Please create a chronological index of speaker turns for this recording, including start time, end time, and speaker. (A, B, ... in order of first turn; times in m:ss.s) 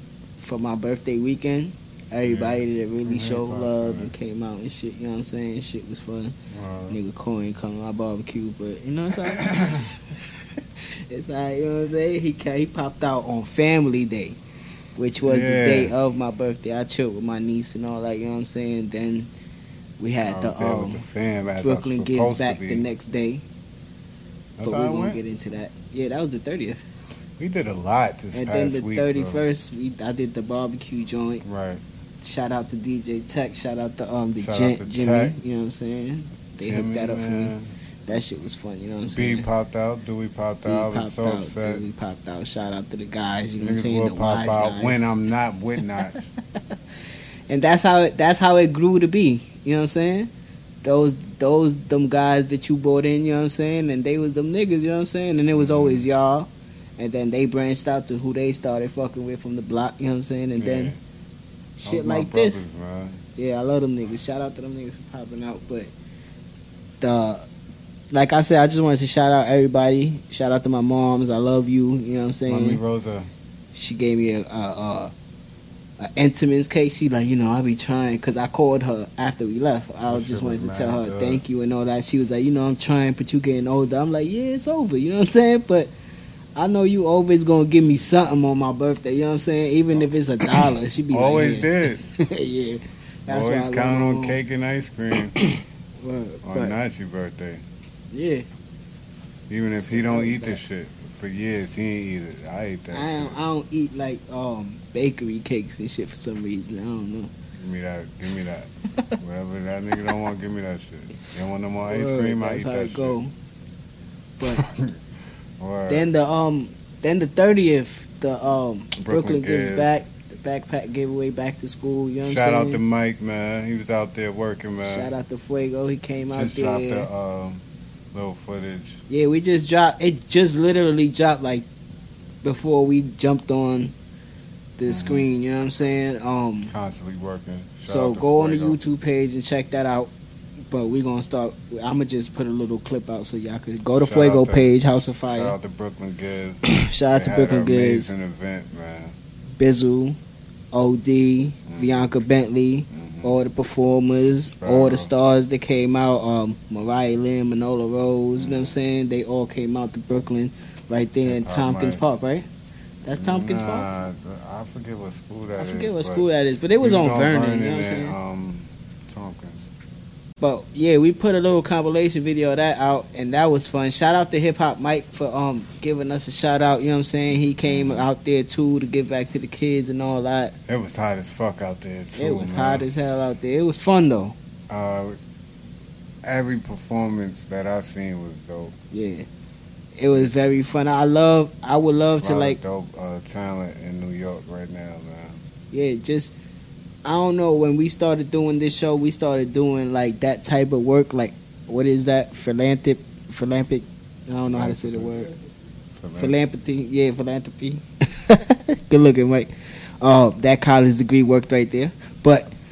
0:00.4-0:06.4 A
0:02.2-0:04.1 B
0:06.5-0:07.0 B
0:06.9-0:09.9 A
0:09.2-0:09.9 B
0:11.1-0:14.4 A
0:15.0-0:19.3 A
0:15.2-0:15.9 B
0:20.0-0:21.0 A
0:20.2-0:22.8 B
0:21.6-0:23.4 A
0:24.6-0:25.2 B
0:24.6-0:26.8 A
0:27.4-0:29.4 B
0:28.3-0:31.4 A
0:31.4-0:31.8 B
0:32.2-0:37.5 A
0:34.4-0:35.4 B
0:36.6-0:37.7 B
0:38.0-0:39.4 A
0:39.1-0:41.8 B
0:40.7-0:45.0 A
0:43.6-0:46.3 B
0:47.5-0:50.3 A
0:50.8-1:00.9 A
0:55.5-0:56.1 B
1:00.6-1:01.0 B
1:01.8-1:03.2 B
1:01.8-1:02.6 A
1:03.4-1:05.9 A
1:07.0-1:07.5 A
1:08.1-1:12.8 A
1:12.5-1:13.3 B
1:13.7-1:15.1 A
1:16.0-1:25.9 A
1:20.1-1:21.4 B
1:26.6-1:34.4 A
1:30.4-1:32.0 B
1:33.3-1:35.4 B
1:35.4-1:36.7 A
1:36.4-1:37.6 B
1:38.1-1:38.4 A
1:39.5-1:43.4 B
1:39.7-1:40.6 A
1:42.9-1:47.3 A
1:47.5-1:53.2 B
1:51.8-1:53.3 A
1:54.4-1:55.0 B
1:55.6-1:56.1 B
1:55.9-2:02.8 A
1:59.0-2:00.0 B
2:02.2-2:05.1 B
2:04.8-2:07.1 A
2:06.3-2:09.0 B
2:09.1-2:11.6 A
2:12.4-2:13.9 A
2:14.8-2:16.7 A
2:14.8-2:15.3 B
2:16.7-2:18.8 B
2:17.8-2:20.1 A
2:20.7-2:25.5 A
2:24.0-2:29.1 B
2:26.6-2:28.1 A
2:29.6-2:30.2 A
2:30.7-2:42.5 A
2:31.7-2:32.1 B
2:32.9-2:33.4 B
2:34.5-2:35.1 B
2:38.4-2:38.8 B
2:41.2-2:42.0 B
2:43.0-2:43.9 A
2:43.2-2:46.3 B
2:45.6-2:48.1 A
2:46.8-2:49.7 B
2:50.4-3:00.5 A
2:57.6-2:58.1 B
3:00.7-3:02.9 B
3:02.2-3:04.3 A
3:04.7-3:05.2 B
3:06.2-3:08.7 B
3:08.9-3:09.3 A
3:10.0-3:12.6 A
3:10.1-3:10.4 B
3:12.1-3:15.4 B
3:15.7-3:16.3 A
3:17.0-3:25.3 A
3:24.5-3:25.3 B
3:26.0-3:26.4 B
3:26.2-3:29.5 A
3:30.0-3:32.5 A